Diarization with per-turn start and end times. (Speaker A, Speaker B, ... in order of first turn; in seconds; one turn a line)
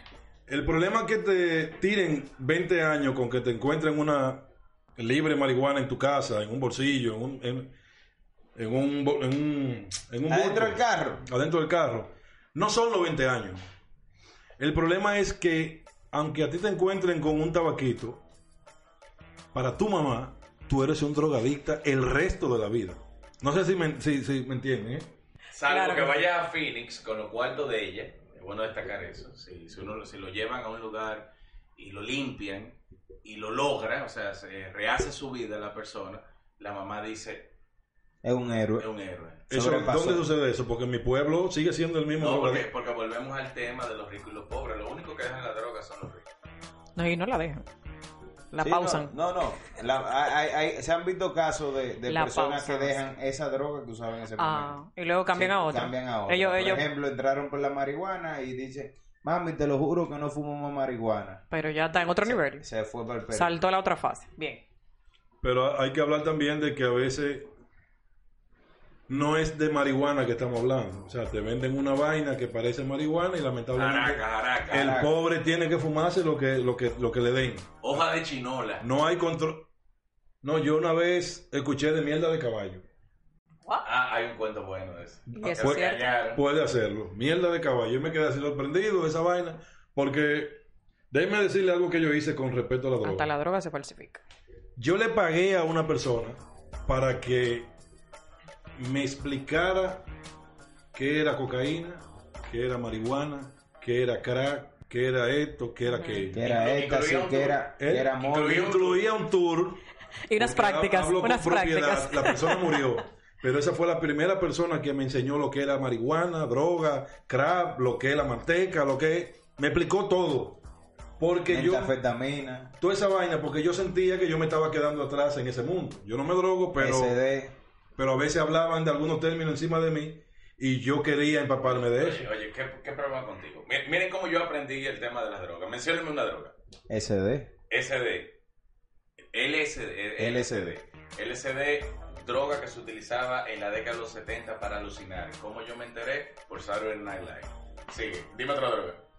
Speaker A: 0.5-7.7
Speaker A: 8.6-13.6
Speaker B: 10.3-11.2
Speaker A: 14.6-18.2
Speaker A: 19.5-25.1
Speaker C: 25.5-37.5
Speaker D: 25.7-26.2
Speaker B: 38.2-38.9
Speaker C: 38.8-39.5
Speaker B: 39.5-40.2
Speaker A: 39.5-42.6
Speaker C: 42.1-46.2
Speaker D: 47.0-47.6
Speaker D: 48.5-49.1
Speaker B: 48.6-54.8
Speaker D: 52.1-53.0
Speaker D: 54.4-56.8
Speaker B: 55.3-61.4
Speaker D: 61.5-62.6
Speaker B: 62.0-63.5
Speaker D: 63.3-64.6
Speaker A: 65.4-67.5
Speaker A: 69.1-78.0
Speaker C: 73.7-75.0
Speaker B: 74.7-75.1
Speaker C: 77.8-78.8
Speaker A: 78.8-79.7
Speaker A: 80.4-82.8
Speaker C: 83.8-86.4
Speaker D: 85.3-86.0
Speaker A: 85.4-93.3
Speaker D: 93.0-94.2
Speaker A: 94.8-97.7
Speaker A: 98.8-100.1
Speaker A: 100.9-106.4
Speaker D: 105.8-106.3
Speaker B: 106.3-108.8
Speaker C: 106.4-109.0
Speaker A: 107.8-109.8
Speaker D: 110.3-112.8
Speaker A: 110.3-120.6
Speaker A: 121.2-121.9
Speaker B: 121.5-122.8
Speaker A: 122.8-127.2
Speaker B: 126.8-127.5
Speaker A: 128.0-132.2
Speaker C: 131.6-136.5
Speaker B: 136.9-137.5
Speaker C: 137.7-138.4
Speaker C: 139.3-149.0
Speaker B: 140.2-140.7